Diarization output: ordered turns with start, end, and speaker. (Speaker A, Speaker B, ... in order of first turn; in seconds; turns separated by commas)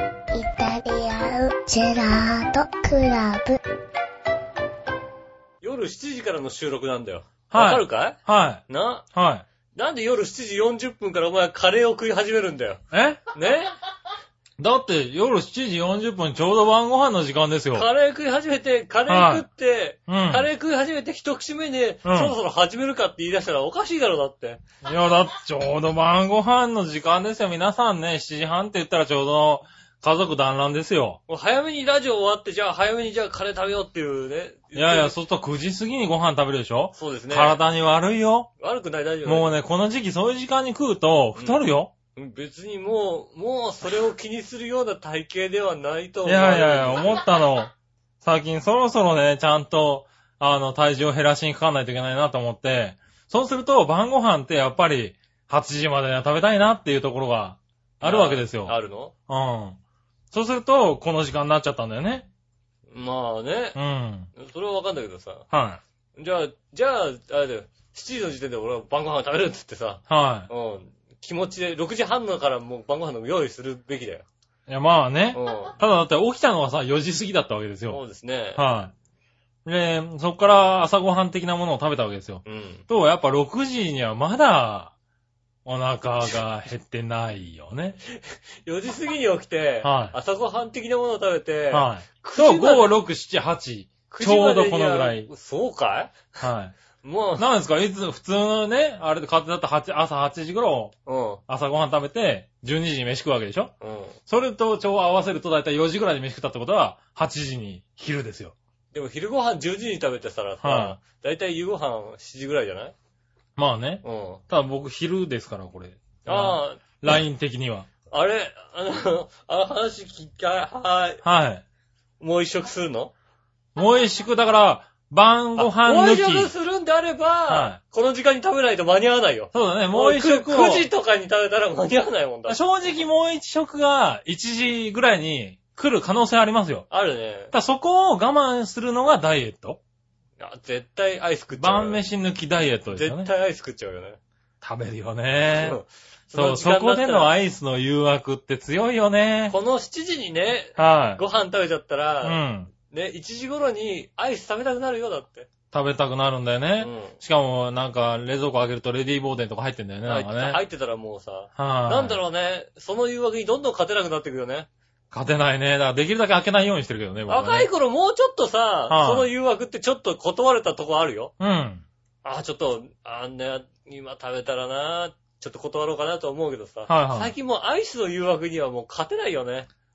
Speaker A: 0.3-3.6, Speaker B: 5.6-9.1, Speaker C: 7.5-9.5, Speaker B: 9.7-12.8, Speaker C: 12.9-13.2, Speaker B: 13.3-13.7, Speaker C: 14.6-17.9, Speaker B: 17.7-24.6, Speaker C: 19.1-19.5, Speaker C: 20.1-20.5, Speaker C: 22.1-22.4, Speaker C: 24.8-31.2, Speaker B: 31.3-35.1, Speaker C: 34.8-38.5, Speaker B: 37.0-37.6, Speaker B: 38.6-39.6, Speaker C: 39.2-41.9, Speaker B: 41.4-41.6, Speaker B: 42.2-47.2, Speaker C: 46.2-47.7, Speaker C: 48.2-58.8, Speaker B: 58.0-59.1, Speaker C: 59.3-59.8, Speaker C: 60.3-62.3, Speaker B: 62.9-63.8, Speaker C: 63.8-64.3, Speaker B: 64.3-65.5, Speaker C: 65.5-65.8, Speaker B: 66.2-74.3, Speaker C: 70.1-70.5, Speaker C: 74.7-78.0, Speaker B: 75.3-75.8, Speaker B: 77.9-78.6, Speaker C: 78.6-78.9, Speaker C: 79.7-84.9, Speaker B: 82.5-82.8, Speaker C: 85.7-88.0, Speaker B: 88.1-93.0, Speaker C: 89.8-90.2, Speaker C: 91.7-95.3, Speaker B: 94.1-96.3, Speaker C: 96.4-96.7, Speaker B: 97.0-97.5, Speaker C: 97.4-100.9, Speaker B: 101.1-101.4, Speaker C: 101.5-103.7, Speaker B: 103.8-104.2, Speaker C: 104.3-108.5, Speaker B: 108.9-113.0, Speaker C: 110.6-111.0, Speaker C: 113.6-117.9, Speaker B: 114.0-114.4, Speaker B: 116.3-116.8, Speaker B: 118.1-121.2, Speaker C: 121.2-121.6, Speaker B: 122.2-123.1, Speaker C: 123.8-126.5, Speaker B: 125.6-132.6, Speaker C: 127.5-127.8, Speaker C: 129.5-130.9, Speaker C: 132.5-136.9, Speaker B: 136.9-137.5, Speaker C: 137.5-139.8, Speaker B: 140.4-142.0, Speaker C: 141.6-143.3, Speaker B: 142.9-144.2, Speaker C: 144.6-145.8, Speaker B: 145.5-147.3, Speaker C: 146.3-149.6, Speaker B: 149.5-155.5, Speaker C: 150.8-151.2, Speaker C: 152.2-152.7, Speaker C: 155.7-160.6, Speaker B: 156.8-157.2, Speaker B: 160.0-164.7, Speaker C: 161.6-162.2, Speaker C: 165.1-167.7, Speaker B: 167.3-171.3, Speaker C: 168.9-169.3, Speaker C: 171.4-171.8, Speaker B: 172.2-179.7, Speaker C: 176.9-177.3